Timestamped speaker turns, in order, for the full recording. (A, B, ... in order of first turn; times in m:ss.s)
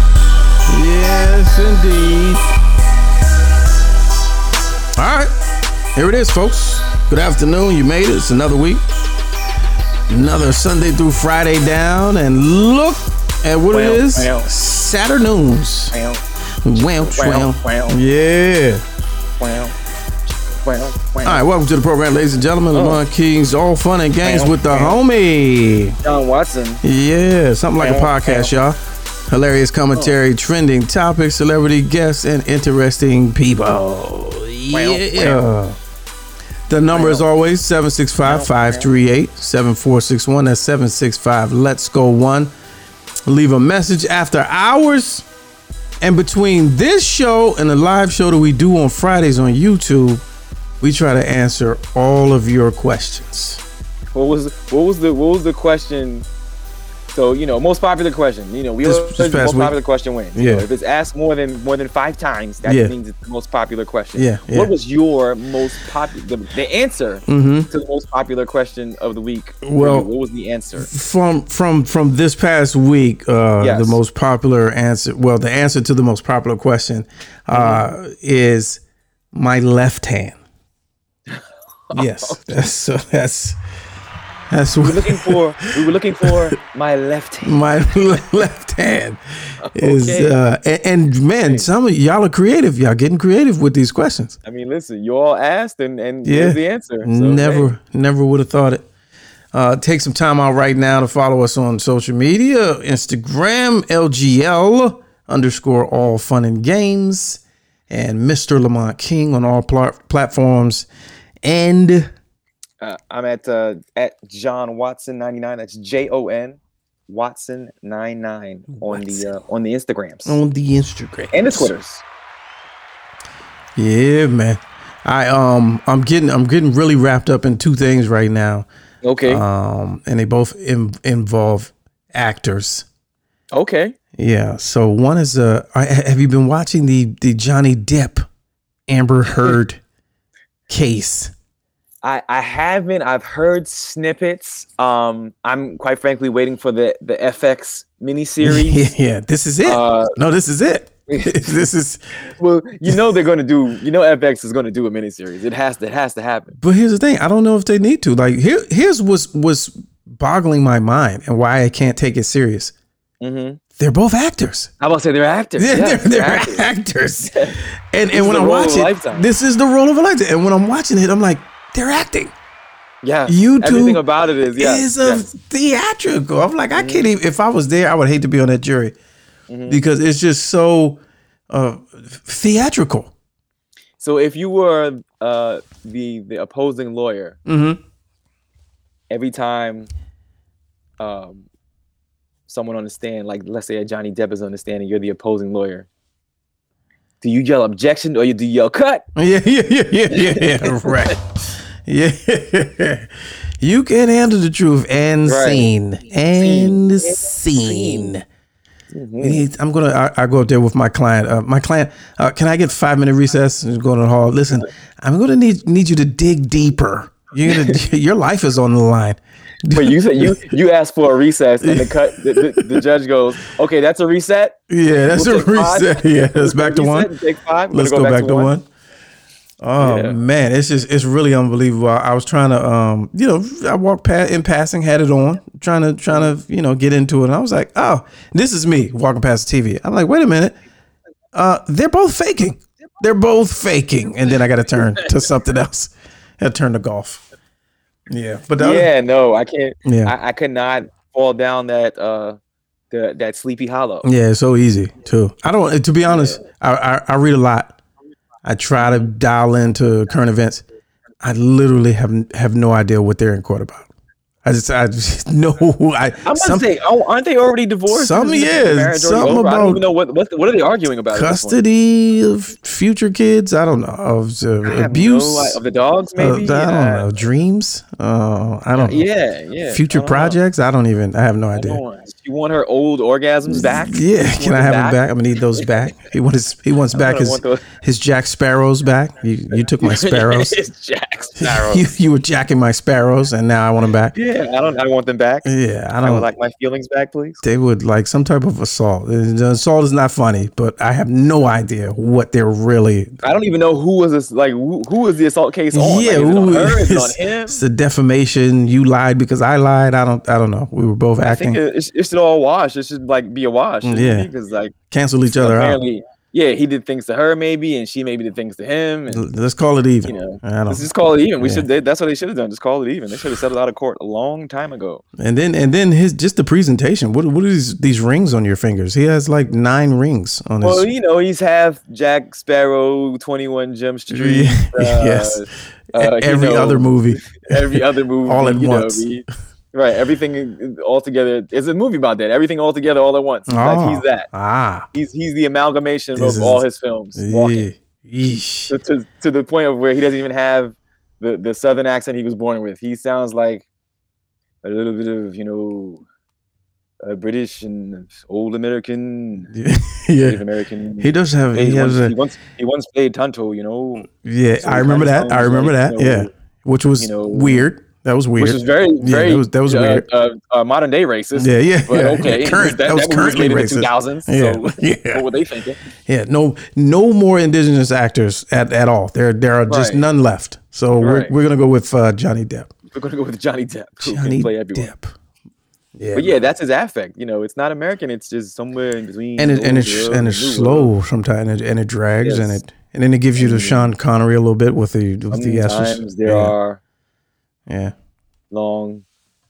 0:00.7-0:02.5 A
0:05.0-0:05.3 A
0:06.0-0:08.8 A
0:10.1-0:16.0 A
0:13.7-0:14.5 B
0:15.9-0:16.2 B
0:16.6-0:18.8 A
0:16.8-0:18.0 B
0:19.4-0:19.8 B
0:20.6-0:21.4 B
0:21.2-0:26.0 A
0:22.7-0:23.0 B
0:24.2-0:25.0 B
0:26.0-0:26.8 B
0:26.8-0:35.8 A
0:27.8-0:28.5 B
0:34.7-0:35.4 B
0:36.7-0:42.5 A
0:36.9-0:37.2 B
0:38.2-0:38.9 B
0:43.3-0:45.3 A
0:46.0-0:50.2 A
0:50.8-0:53.6 A
0:54.1-0:56.3 B
0:57.1-1:10.9 B
0:58.8-0:59.8 A
1:00.4-1:00.7 A
1:02.6-1:02.9 A
1:04.2-1:04.7 A
1:07.3-1:07.7 A
1:09.6-1:10.1 A
1:10.8-1:18.8 A
1:13.6-1:14.0 B
1:17.5-1:17.8 B
1:19.3-1:20.4 A
1:21.3-1:22.7 B
1:21.9-1:23.6 A
1:24.5-1:25.4 A
1:24.8-1:28.2 B
1:27.4-1:29.2 A
1:29.6-1:30.4 B
1:29.8-1:34.4 A
1:34.4-1:37.7 B
1:36.2-1:38.9 A
1:39.5-1:50.9 A
1:51.4-1:52.1 A
1:52.8-2:00.4 B
1:58.7-1:59.3 A
2:00.3-2:01.7 A
2:01.3-2:02.0 B
2:03.8-2:08.7 A
2:09.0-2:09.4 B
2:09.3-2:12.9 A
2:13.5-2:14.0 B
2:14.2-2:18.2 A
2:18.9-2:19.8 A
2:20.7-2:21.3 A
2:22.0-2:28.9 B
2:28.4-2:32.0 A
2:29.6-2:30.1 B
2:31.1-2:31.5 B
2:32.4-2:36.6 B
2:36.6-2:42.7 A
2:43.2-2:43.6 B
2:43.8-2:44.7 A
2:44.8-2:46.7 B
2:45.6-2:47.3 A
2:47.3-2:47.6 B
2:47.9-2:52.3 A
2:48.1-2:49.3 B
2:53.0-2:55.3 B
2:53.3-2:54.0 A
2:54.6-2:59.0 A
2:56.8-2:57.0 B
2:59.5-2:59.8 B
2:59.7-3:03.1 A
3:04.0-3:07.4 B
3:07.5-3:07.8 A
3:09.1-3:09.9 B
3:11.0-3:11.5 B
3:12.5-3:15.9 B
3:17.2-3:19.0 B
3:19.2-3:21.2 A
3:20.1-3:21.1 B
3:21.8-3:23.1 A
3:23.6-3:28.2 A
3:25.3-3:25.7 B
3:26.4-3:28.2 B
3:28.9-3:29.4 B
3:29.2-3:40.4 A
3:37.5-3:37.8 B
3:39.7-3:44.6 B
3:41.6-3:42.7 A
3:44.7-3:47.1 A
3:45.1-3:48.5 B
3:47.7-3:48.7 A
3:49.6-4:00.6 A
3:49.8-3:50.2 B
4:01.3-4:07.2 A
4:04.8-4:05.1 B
4:08.1-4:08.9 A
4:08.6-4:12.4 B
4:09.8-4:10.1 A
4:12.9-4:14.1 B
4:14.0-4:17.8 A
4:16.1-4:16.4 B
4:18.4-4:20.6 A
4:18.8-4:19.1 B
4:21.2-4:23.9 A
4:24.4-4:26.7 A
4:26.2-4:31.6 B
4:27.9-4:29.8 A
4:31.1-4:35.6 A
4:34.6-4:37.1 B
4:36.2-4:39.1 A
4:38.8-4:40.4 B
4:39.7-4:41.8 A
4:41.5-4:45.0 B
4:43.5-4:50.6 A
4:46.9-4:47.6 B
4:49.5-4:51.9 B
4:51.4-4:54.2 A
4:54.1-4:55.5 B
4:55.4-4:56.3 A
4:56.0-4:57.4 B
4:57.4-5:03.2 A
5:03.2-5:07.6 B
5:05.7-5:11.6 A
5:11.2-5:14.7 B
5:13.8-5:14.3 A
5:14.9-5:15.8 A
5:15.4-5:19.3 B
5:19.1-5:20.9 A
5:20.0-5:25.0 B
5:21.4-5:21.7 A
5:25.2-5:30.9 A
5:30.6-5:44.3 B
5:34.1-5:35.4 A
5:36.0-5:39.1 A
5:43.5-5:44.9 A
5:44.9-5:47.7 B
5:46.2-5:46.6 A
5:47.2-5:48.7 A
5:48.7-5:53.7 B
5:54.6-5:56.0 B
5:57.0-5:59.5 B
5:59.5-6:00.4 A
6:00.2-6:04.1 B
6:01.0-6:02.2 A
6:04.1-6:10.0 A
6:04.6-6:06.3 B
6:07.0-6:07.7 B
6:08.4-6:15.8 B
6:11.4-6:15.2 A
6:16.1-6:22.7 A
6:19.7-6:20.1 B
6:21.0-6:21.3 B
6:22.9-6:24.9 B
6:24.0-6:25.1 A
6:26.0-6:26.4 A
6:26.1-6:30.9 B
6:29.4-6:36.5 A
6:32.2-6:32.6 B
6:33.4-6:33.9 B
6:35.3-6:36.8 B
6:37.7-6:38.0 A
6:38.5-6:39.0 B